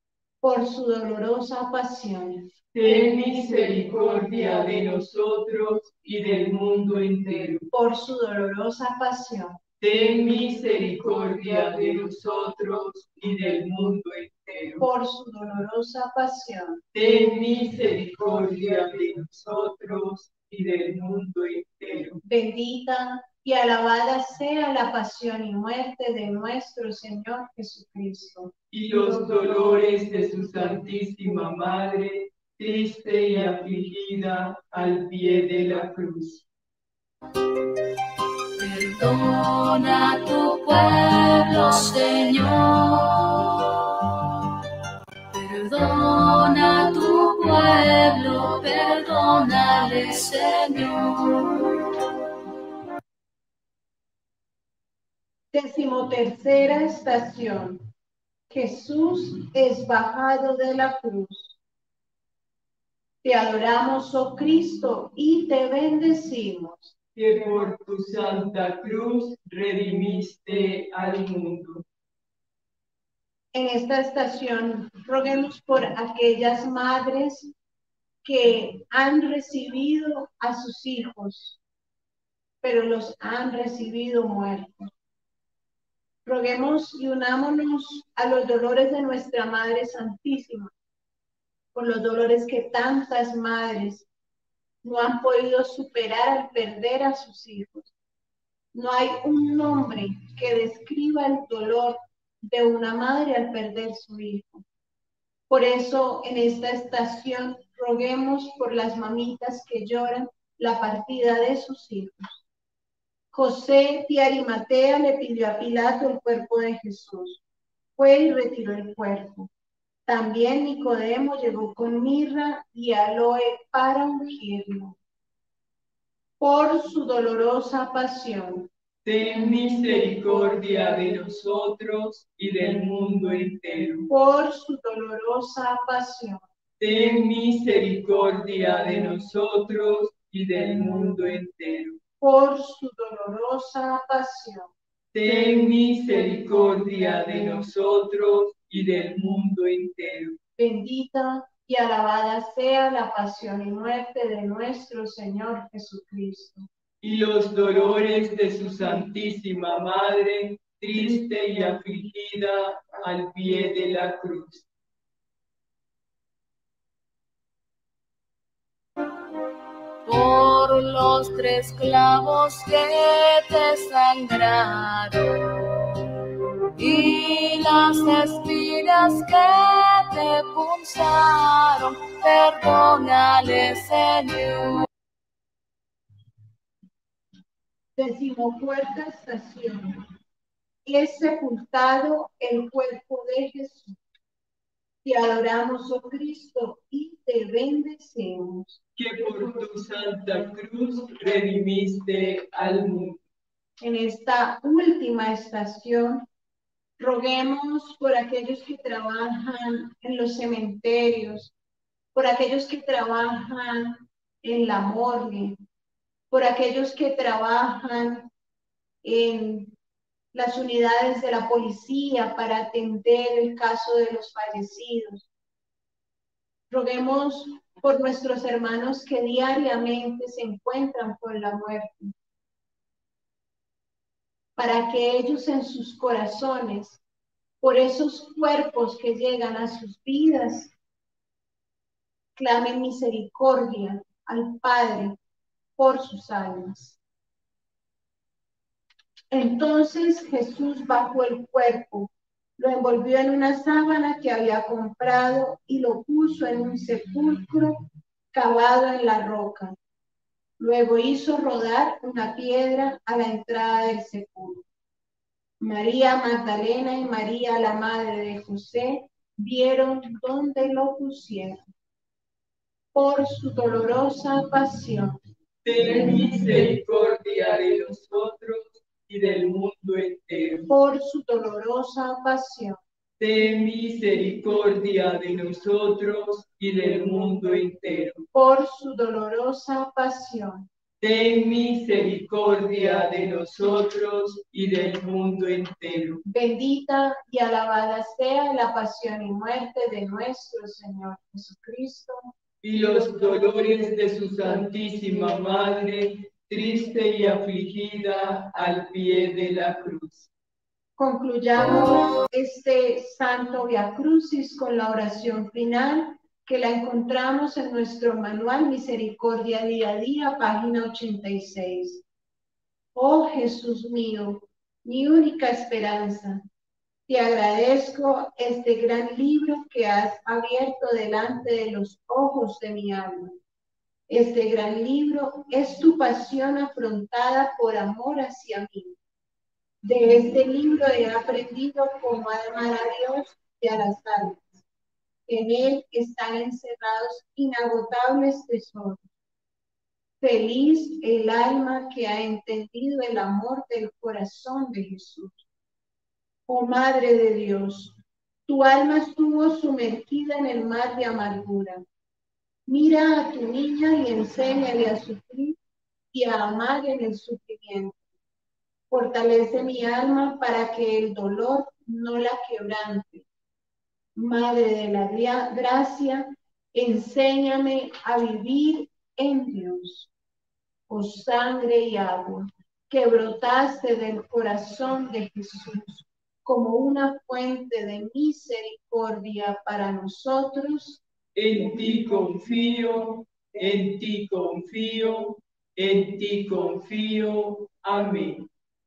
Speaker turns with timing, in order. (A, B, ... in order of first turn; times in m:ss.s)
0:00.4-0:02.5 A
0:02.7-0:07.7 B
0:07.7-0:09.6 A
0:09.8-0:14.8 B
0:14.8-0:16.8 A
0:16.9-0:22.2 B
0:22.2-0:28.5 A
0:28.7-0:36.4 B
0:38.6-0:44.3 C
0:45.3-0:51.9 C
0:55.5-0:57.8 A
0:58.5-1:01.6 A
1:03.2-1:06.9 A
1:07.1-1:11.8 B
1:13.5-1:17.5 A
1:18.2-1:21.6 A
1:22.6-1:24.9 A
1:26.2-1:30.7 A
1:31.7-1:34.1 A
1:34.8-1:37.9 A
1:38.7-1:44.6 A
1:45.5-1:52.4 A
1:53.3-1:57.4 A
1:58.0-1:59.5 A
2:00.0-2:05.0 A
2:06.4-2:08.7 A
2:09.0-2:14.1 B
2:14.1-2:16.4 A
2:16.8-2:22.0 B
2:22.2-2:24.7 A
2:25.1-2:30.4 B
2:30.6-2:36.7 A
2:37.0-2:44.6 B
2:50.0-2:56.0 C
2:56.8-3:04.9 C
3:08.0-3:10.0 A
3:10.8-3:13.9 A
3:15.0-3:18.8 A
3:19.0-3:23.2 B
3:23.8-3:26.3 A
3:27.0-3:31.5 A
3:32.1-3:35.6 A
3:36.3-3:38.3 A
3:39.0-3:39.7 A
3:40.3-3:45.3 A
3:46.7-3:52.1 A
3:54.6-3:57.0 A
3:57.6-4:00.7 A
4:02.4-4:05.2 A
4:05.8-4:07.0 A
4:09.3-4:19.8 A
4:20.6-4:24.6 A
4:25.6-4:31.6 A
4:32.9-4:35.2 A
4:35.6-4:40.7 B
4:40.7-4:42.8 A
4:43.2-4:48.2 B
4:48.3-4:50.7 A
4:51.0-4:56.2 B
4:56.2-5:02.2 A
5:02.6-5:10.3 B
5:11.0-5:22.0 A
5:22.9-5:26.4 A
5:27.1-5:33.3 A
5:34.1-5:39.0 A
5:39.8-5:44.6 A
5:45.3-5:49.0 A
5:50.2-5:55.4 A
5:56.5-6:01.8 A
6:02.7-6:05.6 A
6:06.1-6:08.0 A
6:08.9-6:13.2 A
6:14.2-6:20.1 A
6:20.9-6:31.0 A
6:31.3-6:38.5 B